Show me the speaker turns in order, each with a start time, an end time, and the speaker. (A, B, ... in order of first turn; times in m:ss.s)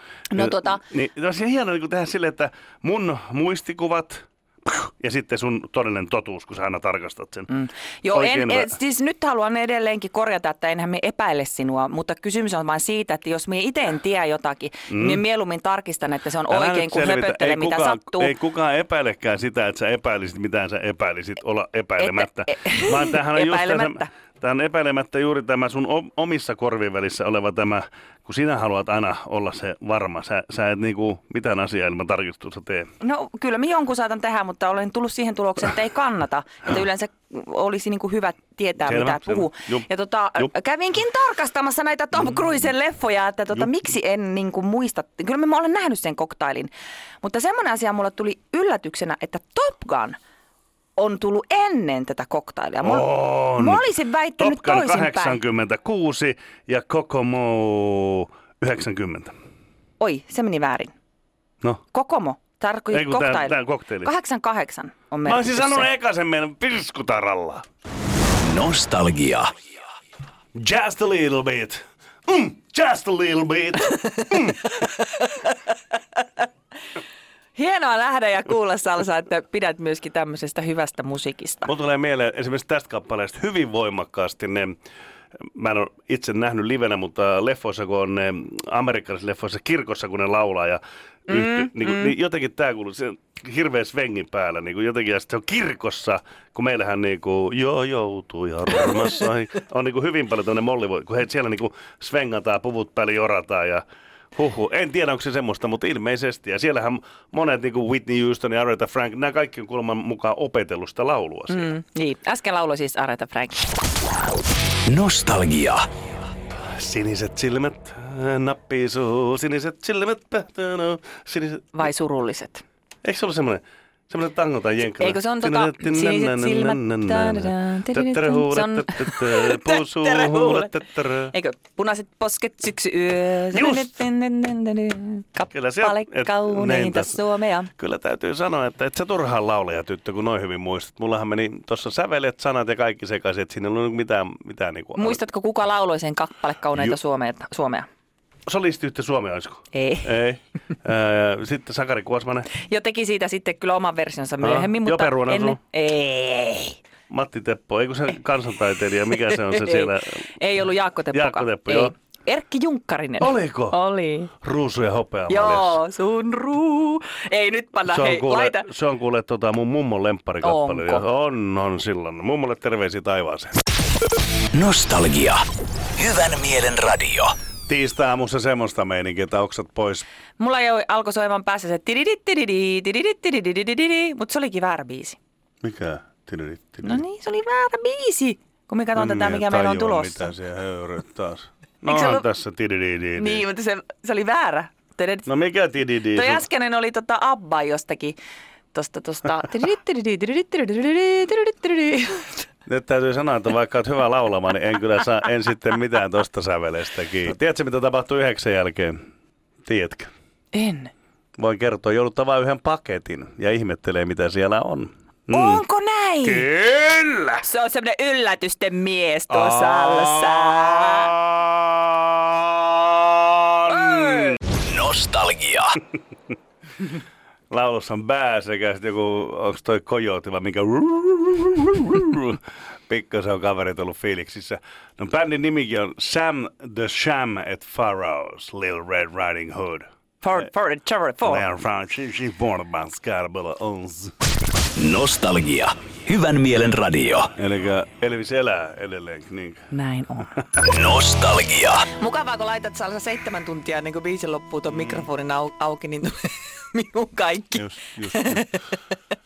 0:00.3-0:00.8 A
0:00.3-0:07.5 B
0:07.5-0:18.3 A
0:08.1-0:08.7 B
0:14.9-0:15.2 B
0:16.5-0:32.9 B
0:22.0-0:24.1 A
0:33.0-0:50.2 A
0:38.8-0:39.8 B
0:51.0-0:55.4 A
0:52.8-0:59.3 B
1:00.0-1:00.9 A
1:01.9-1:05.9 A
1:02.9-1:04.1 B
1:05.2-1:07.6 B
1:08.4-1:09.5 C
1:10.5-1:14.8 B
1:14.8-1:15.3 A
1:17.5-1:21.7 A
1:21.7-1:24.8 B
1:25.5-1:43.8 B
1:31.3-1:32.1 A
1:44.3-1:51.7 B
1:51.5-1:53.7 A
1:54.8-1:55.9 C
1:56.6-2:01.7 B
2:01.7-2:02.6 A
2:03.0-2:11.3 B
2:05.0-2:10.7 A
2:11.3-2:17.7 A
2:13.5-2:13.9 B
2:15.5-2:17.2 B
2:17.8-2:25.2 B
2:25.0-2:27.9 A
2:28.5-2:32.5 B
2:29.7-2:30.1 A
2:32.6-2:36.8 A
2:34.4-2:35.6 B
2:37.1-2:40.2 B
2:39.3-2:44.3 A
2:41.1-2:41.9 B
2:43.2-2:43.8 B
2:44.4-2:45.8 B
2:45.3-2:48.6 A
2:47.8-2:53.5 B
2:50.4-2:51.0 A
2:54.5-2:55.4 C
2:56.0-2:57.3 C
2:57.7-3:00.0 B
3:00.4-3:05.2 A
3:05.6-3:07.0 B
3:06.8-3:10.3 A
3:09.0-3:13.4 B
3:11.8-3:12.2 A
3:13.2-3:15.3 A
3:15.3-3:16.4 B
3:16.1-3:18.2 A
3:18.7-3:22.4 A
3:22.7-3:29.0 B
3:29.6-3:30.1 B
3:30.5-3:30.9 A
3:31.4-3:35.6 B
3:35.3-3:36.4 A
3:36.2-3:37.4 B
3:37.4-3:41.1 A
3:39.3-3:44.4 B
3:43.7-3:44.4 A
3:44.5-3:45.8 C
3:47.5-3:59.8 B
4:00.2-4:01.4 A
4:01.2-4:04.1 B
4:04.8-4:07.3 C
4:07.4-4:09.6 B
4:09.7-4:10.4 A
4:10.6-4:11.9 C
4:12.0-4:18.7 A
4:17.6-4:18.4 B